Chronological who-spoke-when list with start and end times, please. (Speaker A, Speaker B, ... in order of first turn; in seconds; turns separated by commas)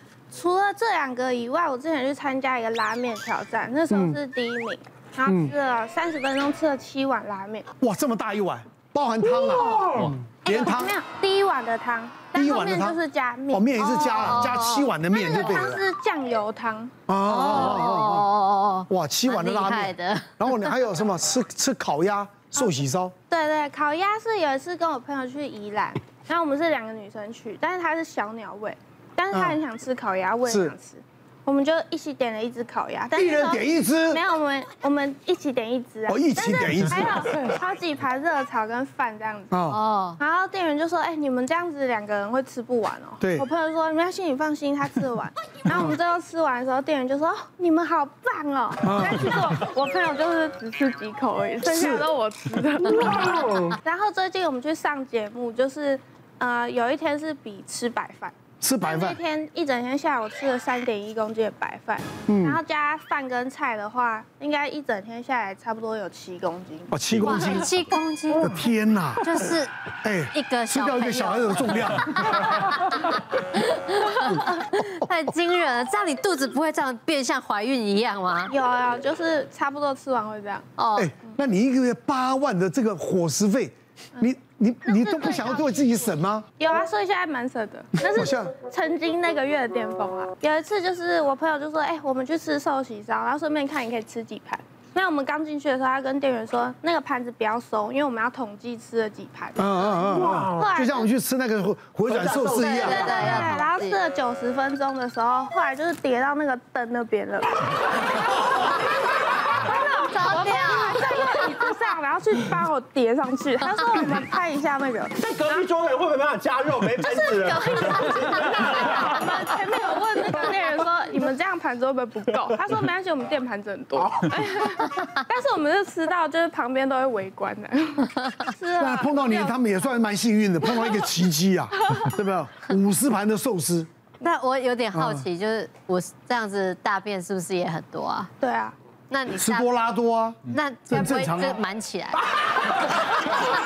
Speaker A: 0.3-7.7, Speaker B: 3.9-4.2, Speaker B: 5.2-5.5, Speaker B: 7.8-10.9, Speaker A: 9.5-9.9, Speaker A: 10.4-13.8, Speaker B: 12.3-13.0, Speaker B: 13.5-15.8, Speaker C: 13.8-15.5, Speaker A: 15.1-16.9, Speaker B: 17.1-18.3, Speaker C: 17.3-20.7, Speaker B: 18.9-23.1, Speaker A: 23.3-39.6, Speaker B: 29.3-29.6, Speaker B: 30.4-30.7, Speaker B: 33.1-34.2, Speaker B: 36.1-37.3, Speaker B: 39.5-39.8, Speaker C: 39.7-40.2, Speaker A: 40.2-66.9, Speaker B: 43.2-43.5, Speaker B: 48.8-49.4, Speaker B: 51.6-52.1, Speaker D: 52.9-53.8, Speaker B: 58.6-59.2, Speaker B: 62.3-62.6, Speaker B: 66.9-67.7, Speaker C: 67.2-68.6, Speaker B: 68.3-69.4, Speaker C: 69.2-69.8, Speaker B: 70.0-72.4, Speaker C: 70.3-72.8, Speaker C: 73.5-78.5, Speaker A: 78.5-80.7, Speaker C: 80.8-81.1, Speaker B: 81.0-86.5, Speaker A: 84.9-85.6, Speaker A: 86.6-100.0, Speaker B: 88.1-88.5, Speaker B: 99.6-103.2, Speaker D: 100.1-100.7, Speaker A: 100.5-101.1, Speaker D: 102.0-103.4, Speaker C: 102.6-104.0, Speaker A: 102.9-107.8, Speaker A: 109.6-115.7, Speaker C: 110.1-111.1, Speaker D: 115.2-119.5, Speaker A: 117.0-129.7, Speaker D: 124.0-124.4, Speaker B: 128.8-133.9, Speaker C: 134.2-138.3, Speaker B: 134.9-135.3, Speaker A: 138.4-138.8, Speaker C: 139.1-139.7, Speaker B: 139.3-141.6, Speaker C: 140.5-142.2